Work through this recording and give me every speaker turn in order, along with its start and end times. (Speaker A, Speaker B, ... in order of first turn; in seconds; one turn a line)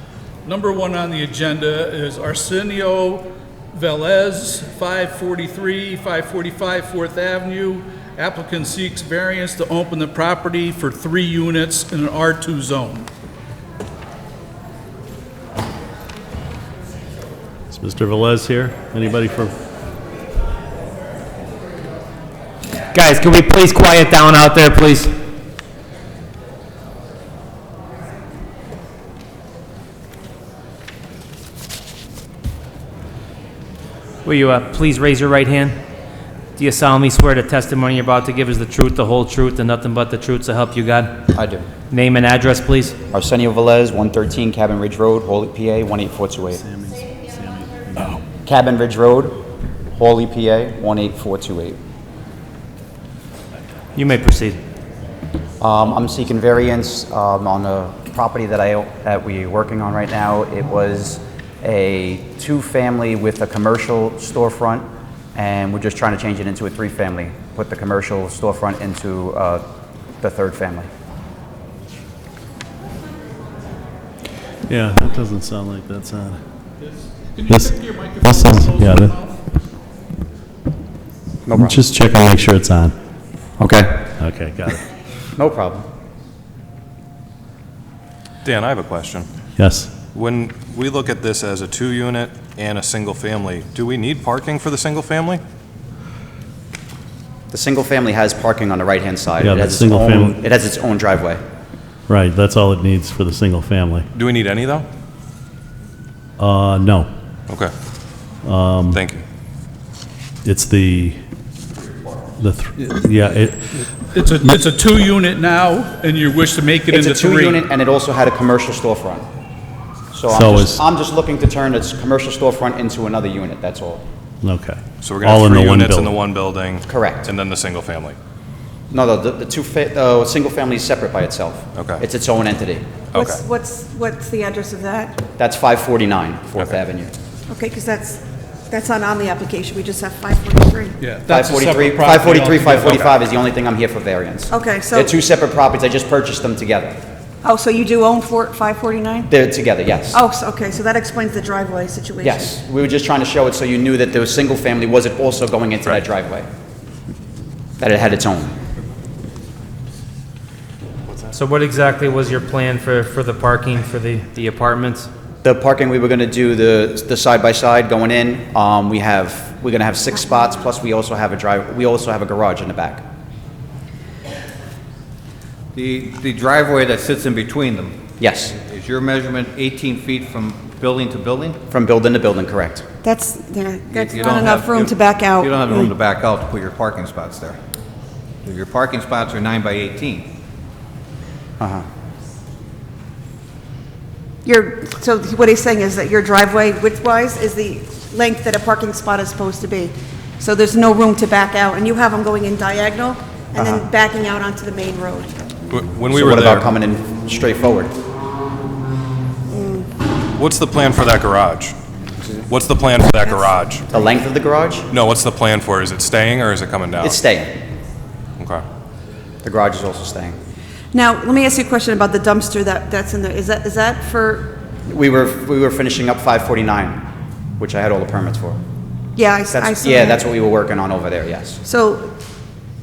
Speaker A: 0.4-13.1
Speaker B: 17.7-19.5
Speaker C: 22.9-25.1
Speaker C: 34.2-35.8
Speaker C: 36.5-41.2
Speaker D: 41.3-41.7
Speaker C: 41.9-43.0
Speaker D: 43.1-46.6
Speaker B: 46.6-48.2
Speaker D: 48.4-49.4
Speaker D: 50.0-51.8
Speaker C: 53.9-54.6
Speaker D: 55.6-69.6
Speaker D: 70.2-70.9
Speaker B: 74.7-76.4
Speaker A: 76.8-79.4
Speaker B: 77.5-79.1
Speaker D: 81.5-81.8
Speaker B: 81.5-82.9
Speaker D: 83.6-84.0
Speaker B: 84.2-84.8
Speaker D: 85.3-85.8
Speaker E: 88.4-89.3
Speaker B: 89.6-89.9
Speaker E: 90.1-95.4
Speaker D: 97.5-101.4
Speaker B: 99.4-100.4
Speaker B: 102.1-104.0
Speaker E: 104.1-104.8
Speaker B: 106.4-107.1
Speaker B: 108.4-109.0
Speaker E: 108.9-109.2
Speaker B: 110.4-111.2
Speaker B: 112.4-113.6
Speaker A: 113.7-117.6
Speaker D: 116.9-119.2
Speaker D: 120.1-124.0
Speaker B: 120.3-120.8
Speaker B: 124.4-126.2
Speaker E: 125.0-128.2
Speaker D: 126.8-127.3
Speaker D: 128.9-132.8
Speaker E: 131.7-132.0
Speaker E: 133.1-133.4
Speaker F: 133.1-135.2
Speaker D: 135.4-137.1
Speaker F: 137.5-141.0
Speaker A: 141.0-143.0
Speaker D: 141.3-147.0
Speaker F: 144.5-145.1
Speaker F: 147.4-149.3
Speaker D: 149.3-150.2
Speaker F: 150.1-152.5
Speaker D: 152.2-156.5
Speaker D: 157.8-158.5
Speaker C: 161.3-165.1
Speaker D: 165.4-173.0
Speaker G: 175.7-178.0
Speaker D: 178.2-178.5
Speaker G: 178.6-181.6
Speaker D: 181.7-182.8
Speaker F: 183.0-185.8
Speaker G: 183.9-187.6
Speaker G: 188.4-190.3
Speaker D: 191.6-191.8
Speaker F: 194.4-205.3
Speaker D: 203.6-203.9
Speaker E: 205.7-206.7
Speaker D: 206.1-207.9
Speaker F: 209.5-209.9
Speaker E: 210.3-211.7
Speaker E: 212.5-213.8
Speaker D: 213.9-214.9
Speaker E: 214.9-217.2
Speaker D: 217.0-217.5
Speaker E: 218.4-218.6
Speaker D: 219.4-220.3
Speaker F: 220.9-224.5
Speaker D: 224.9-227.0
Speaker D: 227.6-228.6
Speaker F: 229.2-230.2
Speaker D: 229.5-231.6
Speaker F: 231.6-232.1